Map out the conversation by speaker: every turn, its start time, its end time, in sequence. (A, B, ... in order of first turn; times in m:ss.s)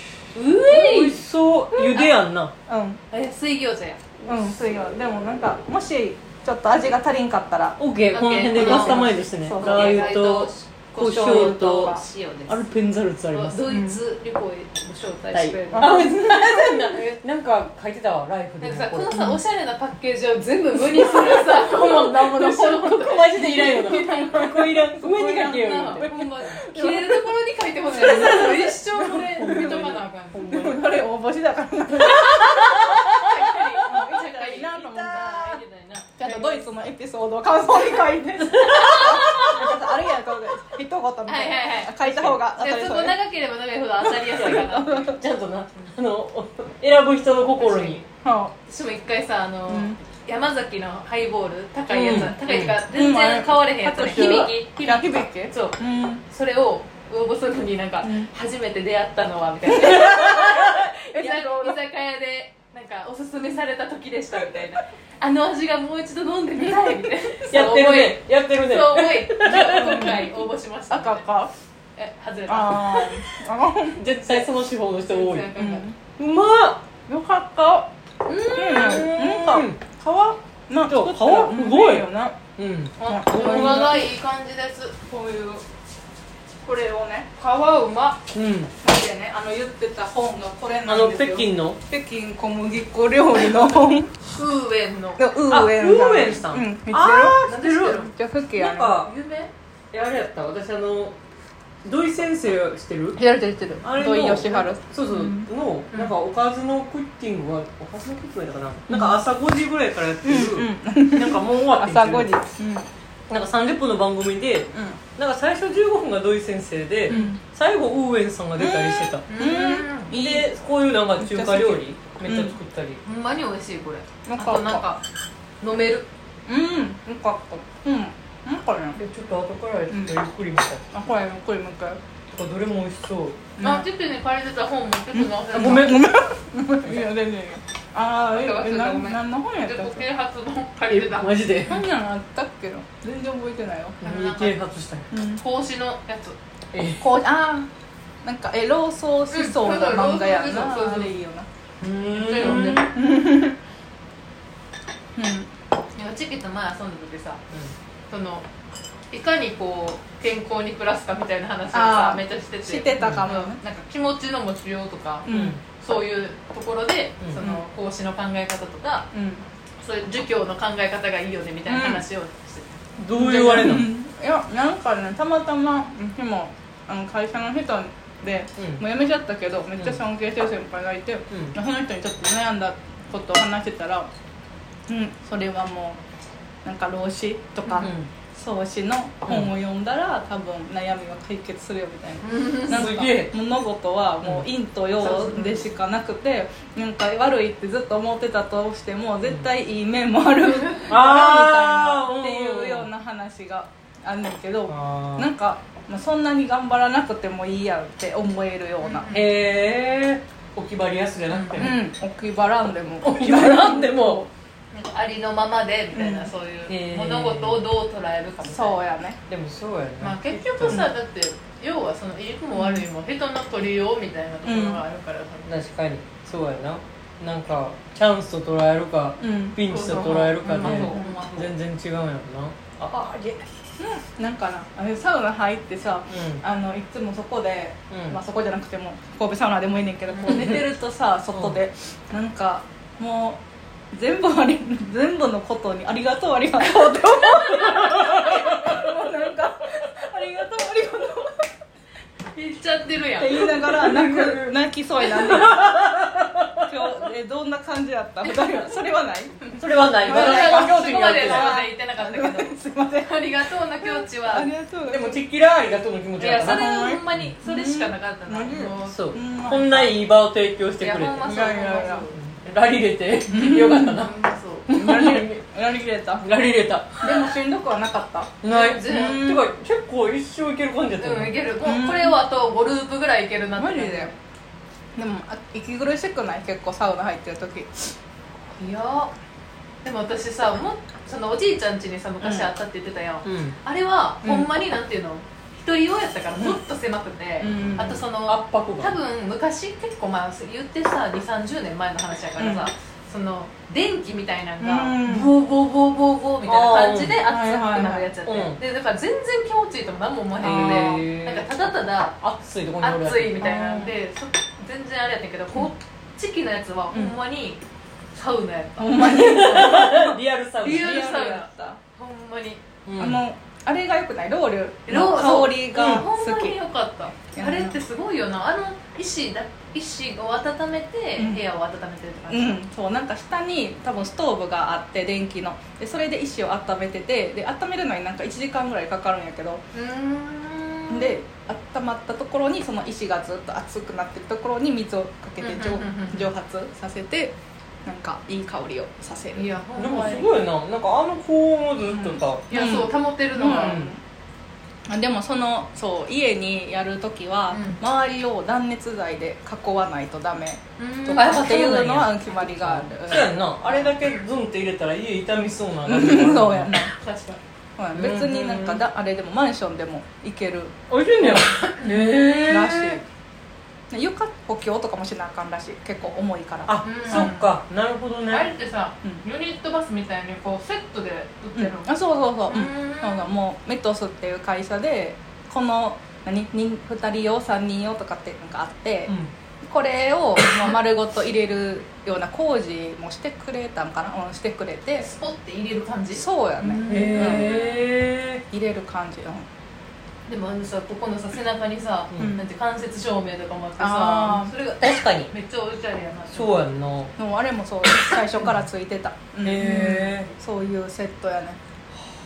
0:00.3-0:01.2 A
0:00.6-0:02.5 B
0:01.7-0:02.1 A
0:02.7-0:03.0 C
0:03.1-0:04.0 A
0:04.2-0:07.8 C
0:07.8-0:13.6 B
0:08.1-0:12.6 A
0:08.5-0:10.2 C
0:11.0-0:12.0 C
0:13.3-0:16.2 A
0:13.6-0:14.0 C
0:15.3-0:19.2 B
0:15.7-0:16.9 C
0:18.6-0:24.5 A
0:20.9-0:23.0 C
0:22.6-0:26.2 B
0:23.7-0:27.2 C
0:25.4-0:30.8 A
0:27.8-0:30.0 C
0:28.0-0:28.4 B
0:29.4-0:31.0 B
0:30.5-0:33.2 C
0:32.2-0:33.3 B
0:32.4-0:36.7 A
0:33.8-0:35.6 C
0:36.2-0:43.2 C
0:38.5-0:39.6 B
0:38.6-0:39.6 A
0:41.3-0:45.2 A
0:44.3-0:48.0 B
0:44.3-0:45.2 C
0:47.6-0:48.0 A
0:48.2-0:48.6 C
0:48.7-1:11.2 A
0:49.7-0:50.0 C
0:51.9-0:52.8 B
0:52.9-0:56.2 C
0:58.0-0:58.3 C
1:00.0-1:00.6 B
1:00.4-1:01.8 C
1:07.5-1:10.2 B
1:09.4-1:10.3 C
1:10.9-1:11.5 C
1:12.0-1:13.1 A
1:12.5-1:14.4 C
1:14.0-1:16.8 B
1:15.1-1:15.9 A
1:15.5-1:16.0 C
1:17.1-1:17.9 C
1:18.2-1:19.1 A
1:18.5-1:22.4 C
1:18.7-1:19.8 B
1:20.8-1:23.9 B
1:23.0-1:25.0 A
1:23.0-1:24.1 C
1:25.1-1:25.6 C
1:26.6-1:27.3 C
1:27.4-1:28.2 A
1:28.3-1:28.7 B
1:28.8-1:34.1 C
1:30.8-1:31.8 B
1:34.2-1:35.2 A
1:35.2-1:38.9 C
1:35.5-1:39.1 B
1:37.4-1:38.1 A
1:38.9-1:39.5 A
1:39.9-1:41.2 B
1:41.8-1:43.2 B
1:43.2-1:45.5 C
1:43.8-1:52.4 B
1:45.1-1:46.1 A
1:48.9-1:49.2 C
1:50.2-1:52.9 C
1:53.3-1:59.2 B
1:54.7-1:55.0 C
1:57.1-1:57.4 C
1:58.6-2:00.5 C
1:59.3-2:00.1 A
2:00.1-2:03.0 B
2:01.2-2:02.6 C
2:03.0-2:05.0 A
2:04.2-2:04.8 C
2:05.6-2:06.1 A
2:06.5-2:09.0 C
2:09.0-2:10.8 B
2:09.9-2:10.2 C
2:10.9-2:12.0 C
2:12.3-2:13.4 B
2:13.6-2:13.9 C
2:13.6-2:15.9 A
2:15.1-2:20.0 C
2:15.5-2:16.2 B
2:18.3-2:21.5 A
2:20.9-2:21.8 B
2:21.7-2:24.0 C
2:24.0-2:25.1 B
2:24.0-2:24.6 A
2:25.1-2:25.4 C
2:25.4-2:26.4 A
2:26.7-2:27.1 B
2:27.0-2:27.7 C
2:28.2-2:31.5 C
2:29.3-2:31.1 A
2:31.8-2:32.9 B
2:32.1-2:32.8 A
2:32.2-2:33.6 C
2:35.2-2:35.5 C
2:35.9-2:37.4 A
2:38.1-2:38.4 A
2:39.1-2:49.1 A
2:41.7-2:43.6 C
2:43.0-2:43.3 B
2:45.2-2:45.6 C
2:45.3-2:45.6 B
2:47.4-2:47.6 C
2:49.1-2:49.4 C
2:49.8-2:52.8 A
2:51.7-2:52.0 C
2:53.0-2:53.9 B
2:53.1-3:04.1 C
2:58.6-2:58.8 B
3:04.9-3:06.0 C
3:06.6-3:29.1 C
3:07.8-3:08.1 B
3:09.2-3:09.5 B
3:12.2-3:12.9 A
3:12.7-3:13.3 B
3:15.0-3:15.6 A
3:20.9-3:22.9 B
3:24.7-3:25.3 B
3:28.8-3:29.3 A
3:29.1-3:31.8 B
3:31.3-3:31.7 A
3:31.6-3:34.3 C
3:33.0-3:34.3 B
3:34.7-3:38.8 A
3:35.9-3:36.3 C
3:36.7-3:37.6 B
3:38.4-3:39.2 C
3:39.3-3:40.9 B
3:40.0-3:45.5 A
3:42.6-3:42.8 C
3:44.4-3:44.8 C
3:45.4-3:53.5 B
3:49.2-3:49.6 C
3:49.7-3:51.5 A
3:50.6-3:51.2 C
3:53.8-4:03.4 C
3:56.1-3:56.4 B
3:57.9-3:58.2 B
4:00.1-4:00.5 A
4:00.3-4:00.6 B
4:01.3-4:01.6 B
4:03.9-4:11.4 C
4:07.6-4:08.8 B
4:12.3-4:13.4 A
4:13.2-4:16.0 C
4:13.4-4:17.0 B
4:16.7-4:19.4 C
4:18.4-4:18.7 A
4:19.5-4:24.5 A
4:19.6-4:21.6 B
4:20.0-4:23.3 C
4:23.8-4:25.2 C
4:24.8-4:27.3 B
4:26.2-4:29.0 A
4:26.4-4:30.0 C
4:28.5-4:31.3 B
4:30.8-4:32.2 A
4:31.2-4:32.0 C
4:32.2-4:34.1 B
4:33.3-4:34.0 C
4:33.7-4:34.7 A
4:34.7-4:35.4 B
4:34.7-4:36.2 C
4:36.2-4:37.3 B
4:37.0-4:39.4 C
4:38.4-4:41.4 B
4:38.5-4:39.2 A
4:41.0-4:44.2 A
4:41.6-4:42.2 C
4:43.6-4:44.1 C
4:44.9-4:47.9 C
4:48.6-4:49.1 A
4:49.8-5:12.2 A
4:52.2-4:52.5 C
4:53.2-4:53.6 B
4:54.2-4:54.5 C
4:57.4-4:58.0 C
4:58.2-4:59.0 B
5:02.4-5:02.7 C
5:04.6-5:05.3 C
5:06.4-5:07.2 B
5:07.3-5:08.1 C
5:08.2-5:08.6 B
5:10.4-5:11.0 C
5:10.4-5:13.4 B
5:12.8-5:17.6 A
5:13.4-5:13.9 C
5:16.9-5:17.2 C
5:18.1-5:19.8 A
5:18.8-5:20.2 C
5:19.0-5:21.2 B
5:20.6-5:22.6 A
5:20.8-5:21.8 C
5:22.8-5:23.2 B
5:23.0-5:26.6 C
5:24.9-5:32.6 A
5:25.7-5:26.0 B
5:27.3-5:27.8 C
5:31.2-5:31.4 C
5:32.3-5:39.6 C
5:39.7-5:41.2 A
5:40.9-5:49.5 C
5:45.4-5:46.3 A
5:49.3-5:50.4 A
5:49.8-5:52.5 B
5:51.8-5:54.0 C
5:52.5-5:53.8 A
5:53.5-5:53.9 B
5:54.9-6:03.3 C
5:57.5-5:57.8 A
6:00.8-6:02.0 A
6:01.2-6:06.7 B
6:05.8-6:06.9 C
6:06.9-6:07.4 A
6:07.8-6:11.4 C
6:07.9-6:08.8 B
6:10.9-6:13.0 B
6:11.3-6:11.9 A
6:12.4-6:13.0 C
6:13.9-6:17.3 C
6:16.7-6:18.5 B
6:16.8-6:17.4 A
6:18.3-6:21.9 A
6:21.5-6:35.1 C
6:22.5-6:23.3 A
6:29.1-6:29.3 B
6:35.0-6:37.8 A
6:36.1-6:37.5 C
6:36.9-6:38.4 B
6:38.5-6:39.4 C
6:40.3-6:46.6 A
6:42.2-6:42.4 C
6:43.8-6:44.5 C
6:44.8-6:45.3 B
6:46.3-6:47.1 B
6:47.2-6:51.6 C
6:49.4-6:50.3 B